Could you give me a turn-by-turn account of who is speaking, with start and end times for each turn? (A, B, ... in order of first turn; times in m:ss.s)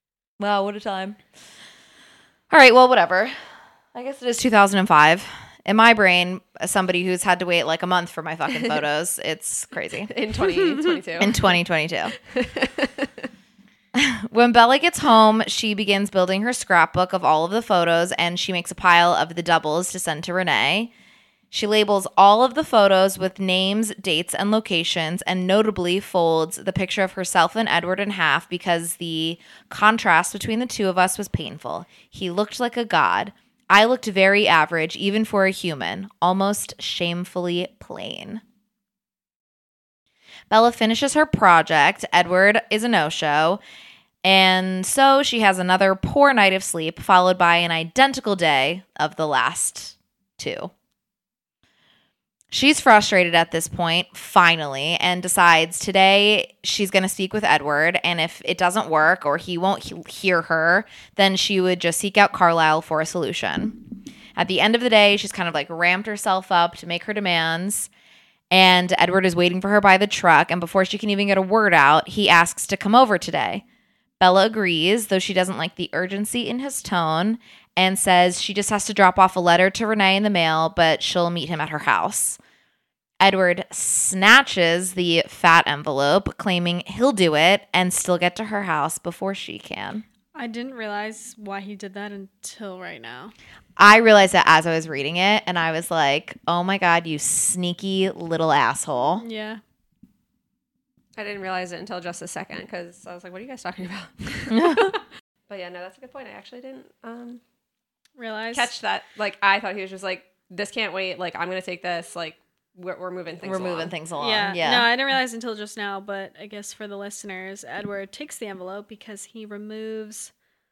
0:00.4-0:01.2 A
0:02.5-0:03.4 A
0:03.9-0:10.1 A
0:10.1-0:11.6 B
0:10.5-0:11.0 C
0:11.2-0:12.1 A
0:12.2-0:13.3 B
0:13.9-0:20.9 A
0:21.5-0:38.4 A
0:40.5-0:43.6 A
0:44.2-0:50.7 A
0:52.5-1:07.9 A
1:08.5-1:13.6 A
1:14.2-1:22.4 A
1:23.2-1:30.0 A
1:30.4-1:33.3 C
1:33.8-1:39.2 A
1:39.2-1:39.6 C
1:41.2-1:47.4 B
1:44.5-1:44.9 A
1:48.2-1:48.7 C
1:48.5-1:53.9 B
1:53.4-1:54.9 A
1:54.2-2:00.3 C